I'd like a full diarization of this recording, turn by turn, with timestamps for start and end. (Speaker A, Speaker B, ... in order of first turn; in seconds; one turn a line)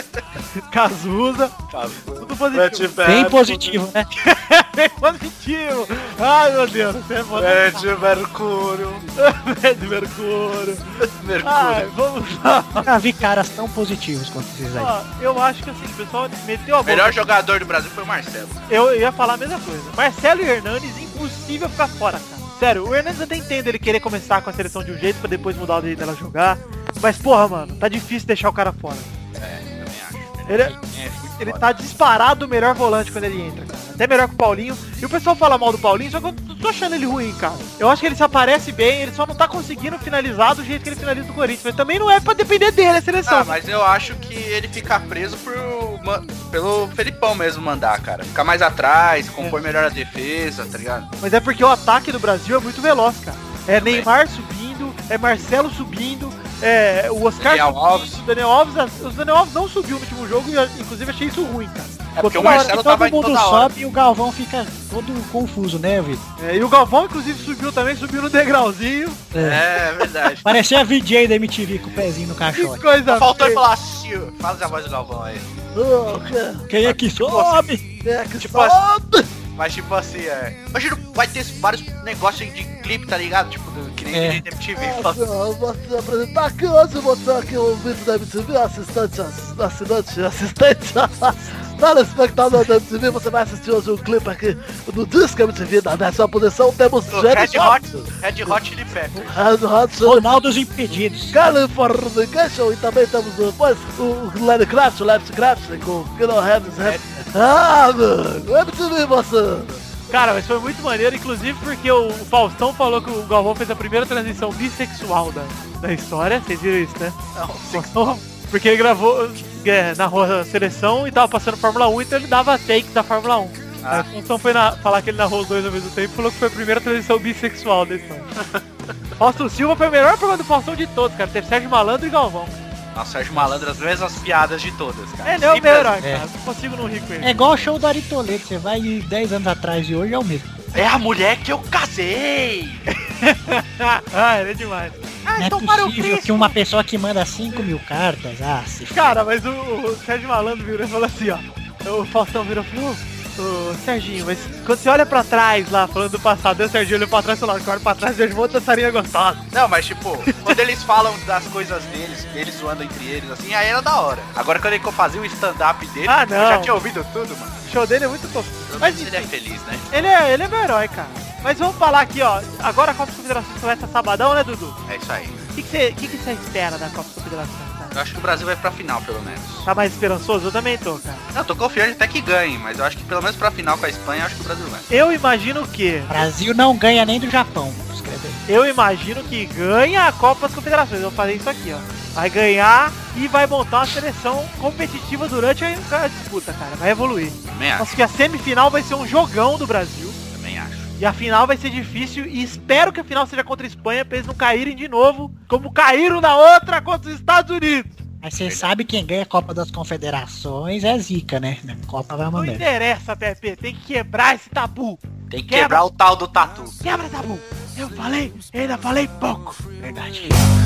Speaker A: 0.6-1.6
Speaker B: 1.7-3.5
Speaker A: 2.2-3.5
Speaker C: 3.0-4.1
Speaker A: 4.2-7.9
Speaker B: 7.3-9.1
Speaker A: 9.2-12.9
Speaker B: 11.0-11.9
Speaker C: 12.8-14.9
Speaker A: 14.8-17.2
Speaker B: 16.9-18.6
Speaker A: 18.7-29.1
Speaker B: 29.4-31.7
Speaker A: 30.5-30.8
Speaker A: 31.4-43.6
Speaker B: 43.3-51.1
Speaker A: 51.2-62.8
Speaker B: 53.8-54.1
Speaker B: 57.4-58.2
Speaker B: 62.2-63.7
Speaker C: 62.3-66.2
Speaker A: 66.4-69.3
Speaker C: 69.3-69.7
Speaker B: 69.4-70.5
Speaker C: 70.4-72.8
Speaker A: 72.5-73.6
Speaker B: 73.1-75.5
Speaker D: 75.8-76.7
Speaker C: 76.7-77.8
Speaker B: 76.8-77.6
Speaker D: 78.0-79.3
Speaker B: 78.4-78.8
Speaker B: 79.6-85.3
Speaker C: 84.1-84.5
Speaker D: 84.8-98.6
Speaker B: 97.1-99.4
Speaker D: 99.2-100.3
Speaker C: 100.0-101.4
Speaker D: 101.3-109.8
Speaker B: 106.8-107.2
Speaker A: 110.1-117.2
Speaker B: 117.3-118.2
Speaker A: 117.7-128.3
Speaker B: 123.8-124.1
Speaker A: 129.2-132.6
Speaker B: 132.9-135.9
Speaker A: 135.2-137.4
Speaker C: 136.0-136.3
Speaker C: 137.2-140.5
Speaker B: 140.8-142.8
Speaker A: 142.9-145.0
Speaker B: 145.3-146.4
Speaker C: 145.4-149.2
Speaker A: 148.9-159.4
Speaker B: 159.5-167.6
Speaker A: 160.3-160.6
Speaker A: 166.1-166.7
Speaker A: 167.7-169.3
Speaker B: 168.7-170.1
Speaker A: 169.9-174.8
Speaker B: 174.9-175.4
Speaker A: 175.6-177.9
Speaker B: 177.9-179.7
Speaker A: 179.7-181.2
Speaker B: 181.3-184.9
Speaker A: 184.9-186.2
Speaker C: 186.1-188.4
Speaker A: 188.5-200.2
Speaker B: 197.5-197.9
Speaker B: 200.3-200.9
Speaker A: 201.0-208.0
Speaker C: 208.2-212.7
Speaker A: 212.3-215.8
Speaker B: 215.3-216.8
Speaker A: 216.8-219.6
Speaker C: 219.8-220.3